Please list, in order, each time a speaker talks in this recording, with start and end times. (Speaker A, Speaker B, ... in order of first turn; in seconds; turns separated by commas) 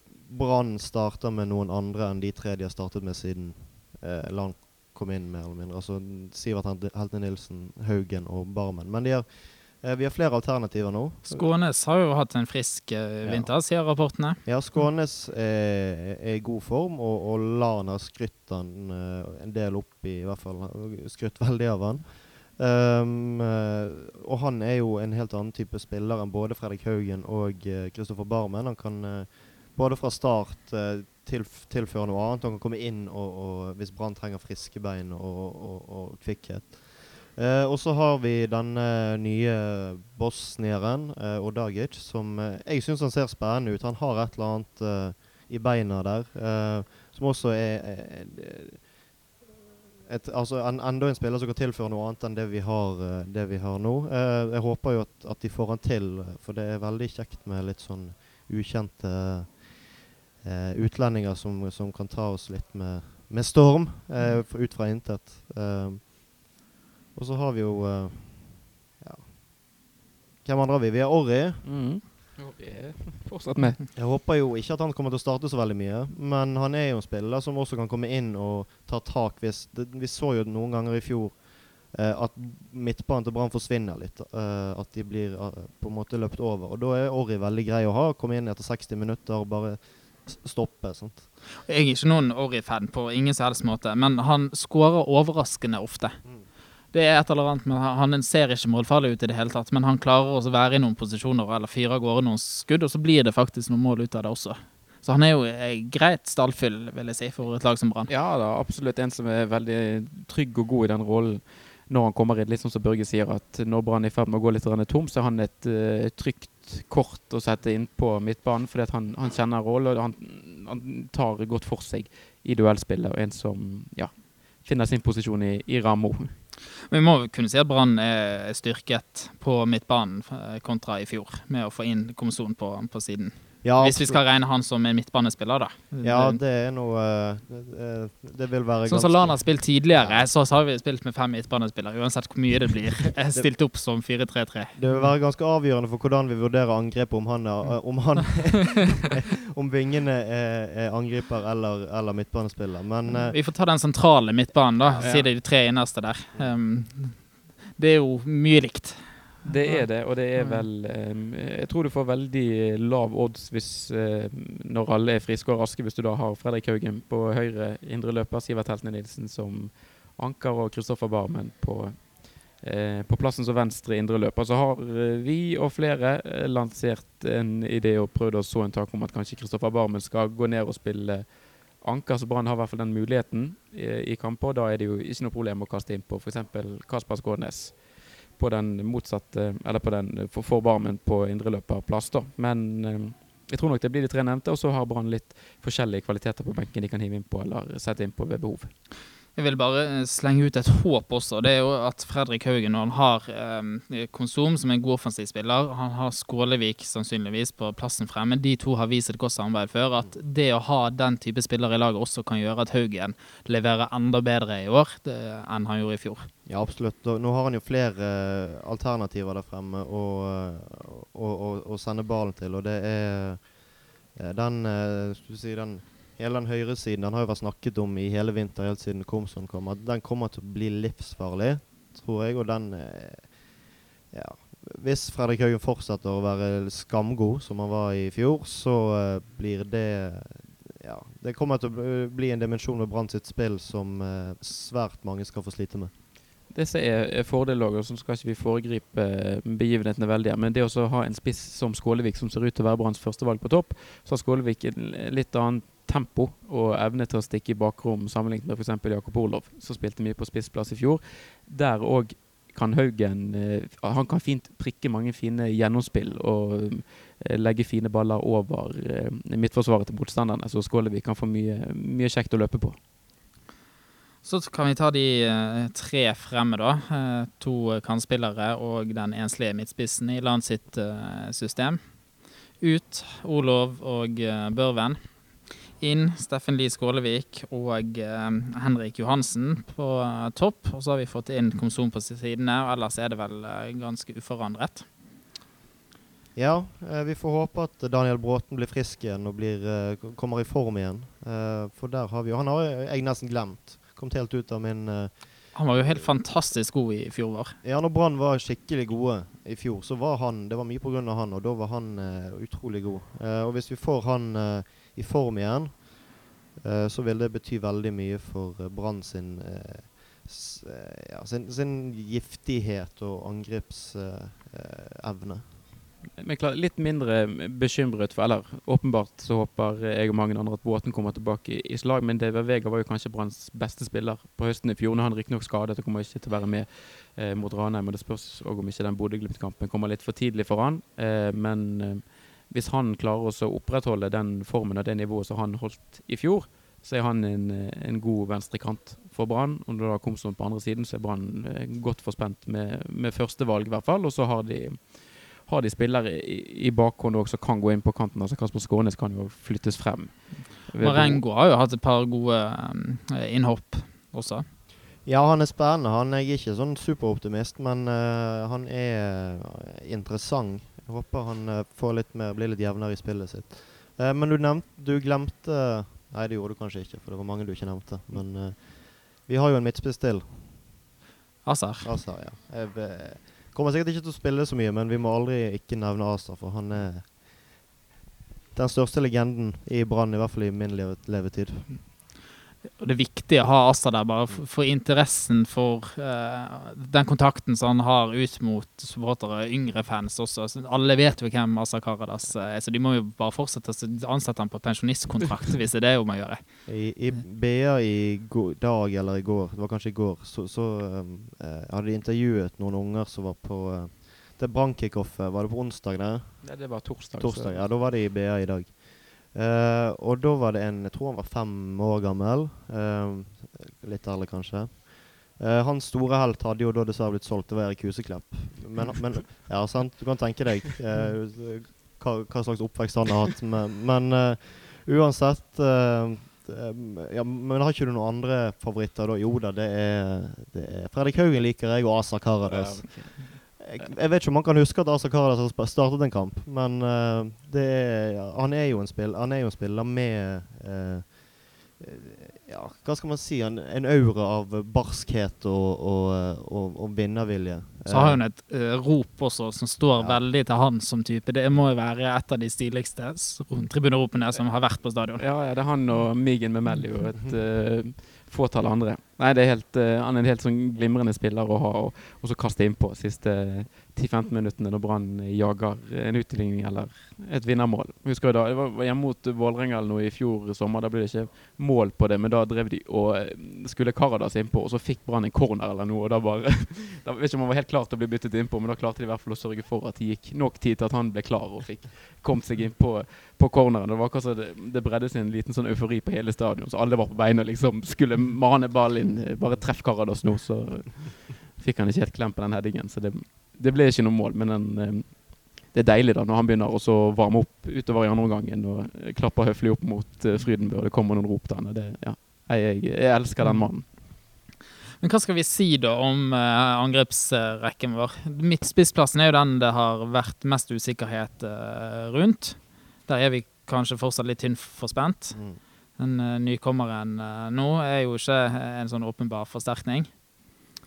Speaker A: 0.2-11.5, Speaker B: 11.3-14.8, Speaker A: 13.2-13.7, Speaker A: 14.4-49.0, Speaker A: 50.0-66.4, Speaker A: 67.1-69.3, Speaker A: 70.4-71.7, Speaker C: 71.6-73.8, Speaker A: 74.0-91.3, Speaker B: 91.7-96.3, Speaker B: 96.9-108.1, Speaker C: 108.1-126.3, Speaker B: 126.9-136.4, Speaker A: 133.6-134.2, Speaker A: 136.0-140.3, Speaker B: 138.9-145.1, Speaker A: 144.8-153.4, Speaker B: 153.1-160.7, Speaker C: 155.0-155.3, Speaker C: 159.5-198.7, Speaker B: 199.3-216.3, Speaker A: 216.5-245.9, Speaker C: 246.5-272.8, Speaker B: 274.2-281.8, Speaker B: 282.6-294.9, Speaker A: 296.4-306.1, Speaker B: 305.5-307.6, Speaker A: 307.6-325.6, Speaker C: 326.2-361.2, Speaker B: 360.8-364.4, Speaker A: 365.0-380.7, Speaker B: 381.4-381.9, Speaker A: 381.8-387.6, Speaker A: 388.5-391.8, Speaker B: 392.8-406.4, Speaker A: 406.7-458.2, Speaker C: 416.4-417.7, Speaker C: 442.4-443.9, Speaker B: 457.9-465.2, Speaker C: 465.1-513.9, Speaker B: 515.0-525.4, Speaker A: 525.3-525.6, Speaker B: 526.0-530.1